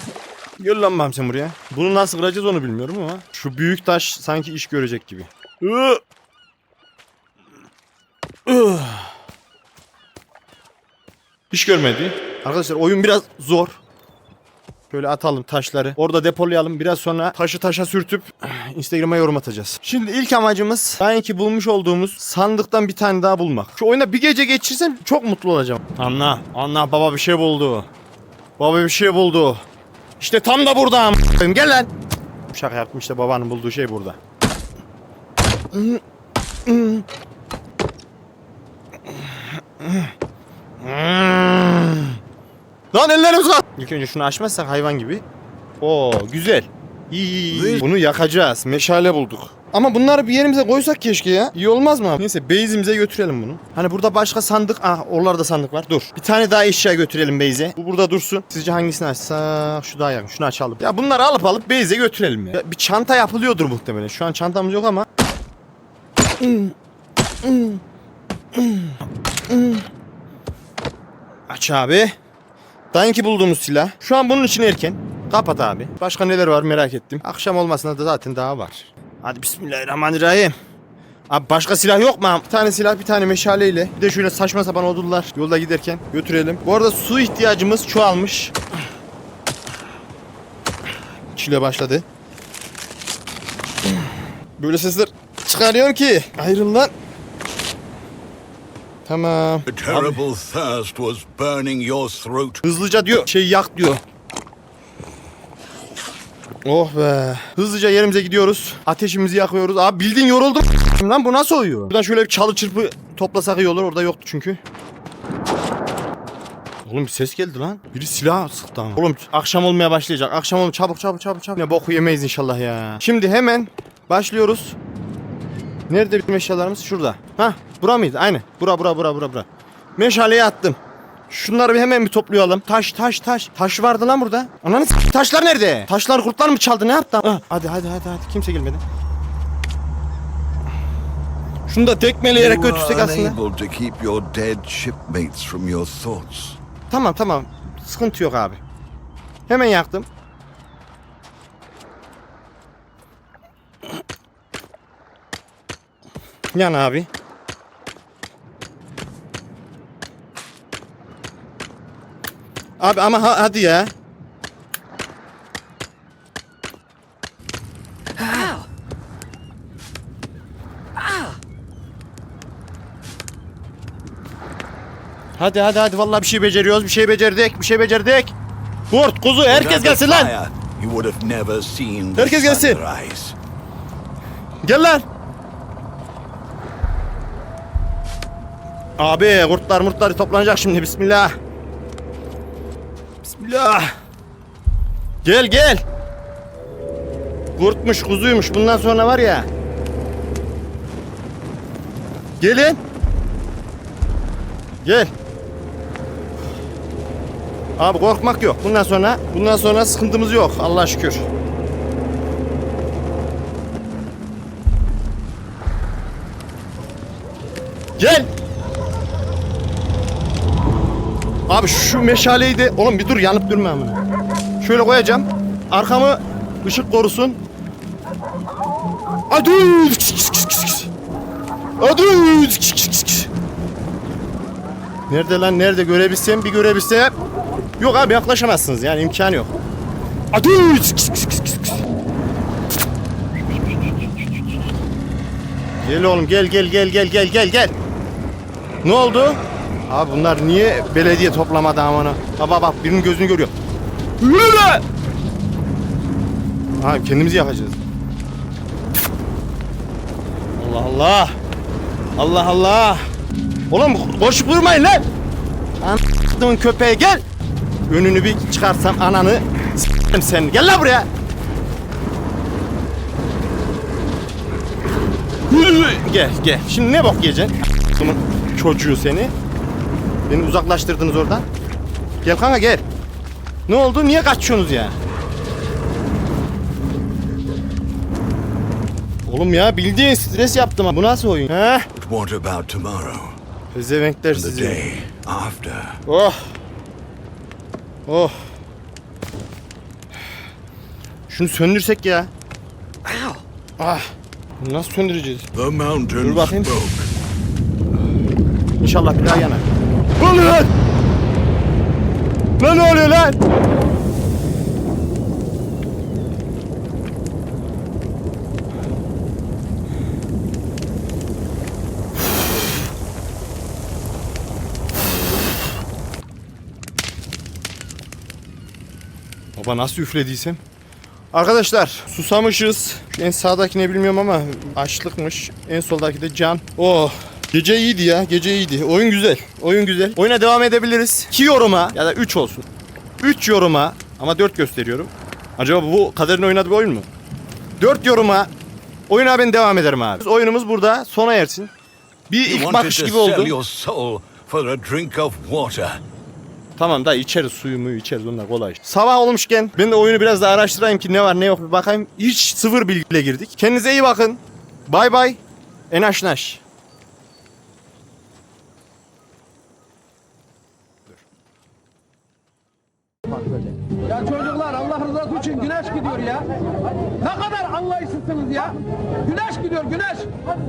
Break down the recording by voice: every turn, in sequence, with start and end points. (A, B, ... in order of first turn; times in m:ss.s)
0:00.6-0:06.0 A
0:08.5-0:09.1 A
0:11.5-0:13.8 A
0:14.9-0:27.9 A
0:28.6-0:29.6 A
0:30.2-0:31.9 A
0:32.5-0:34.2 A
0:35.7-0:36.0 A
0:36.6-0:37.0 A
0:39.1-0:40.1 A
0:40.8-0:42.2 A
0:42.9-0:45.2 A
0:45.8-1:05.0 A
0:47.5-0:47.8 B
1:06.4-1:06.7 A
1:07.4-1:07.8 A
1:08.5-1:09.8 A
1:11.5-1:12.1 A
1:12.9-1:20.5 A
1:21.3-1:28.5 A
1:31.3-1:32.0 A
1:34.6-1:36.9 A
1:39.0-1:40.2 A
1:39.6-1:42.6 B
1:42.6-1:44.0 A
1:46.6-1:54.6 A
1:56.8-2:04.8 A
2:05.9-2:10.8 A
2:11.3-2:18.8 A
2:21.7-2:23.4 A
2:22.3-2:26.6 B
2:26.9-2:28.6 A
2:29.5-2:30.1 A
2:36.5-2:37.1 A
2:42.8-2:43.9 A
2:55.4-2:58.3 A
2:58.9-3:00.3 A
2:59.5-3:03.3 B
3:02.2-3:02.8 A
3:04.6-3:05.0 A
3:09.0-3:11.3 A
3:13.2-3:13.9 A
3:15.2-3:15.8 A
3:17.6-3:19.5 A
3:22.4-3:22.8 A
3:24.8-3:25.1 A
3:27.8-3:31.2 A
3:38.0-3:38.3 A
3:41.5-3:44.0 A
3:44.6-3:47.4 A
3:49.3-3:50.9 A
3:51.8-3:53.3 A
3:55.1-3:57.1 A
3:57.8-3:59.5 A
4:00.3-4:01.8 A
4:05.8-4:07.7 A
4:08.8-4:13.5 A
4:14.2-4:14.8 A
4:16.8-4:17.8 A
4:20.6-4:21.4 A
4:22.2-4:23.0 A
4:23.7-4:25.0 A
4:25.8-4:27.2 A
4:27.9-4:31.1 A
4:35.5-4:39.3 A
4:40.3-4:41.4 A
4:42.2-4:42.8 A
4:43.7-4:45.0 A
4:49.3-4:51.9 A
4:52.0-4:53.3 B
4:53.7-4:54.8 A
4:54.3-4:56.0 B
4:56.0-4:56.5 A
4:58.1-4:58.4 A
5:01.3-5:02.3 A
5:03.8-5:04.1 A
5:04.6-5:05.5 A
5:05.5-5:07.1 B
5:06.2-5:06.7 A
5:08.8-5:09.7 A
5:10.2-5:10.7 A
5:12.6-5:13.4 A
5:29.6-5:30.6 A
5:31.3-5:42.6 A
5:43.2-5:47.1 A
5:47.8-5:48.5 A
5:49.1-5:51.7 A
5:52.3-5:53.6 A
5:52.4-5:56.0 B
5:56.8-6:05.4 A
6:05.9-6:06.6 A
6:14.4-6:16.4 C
6:17.3-6:18.7 C
6:19.3-6:20.2 C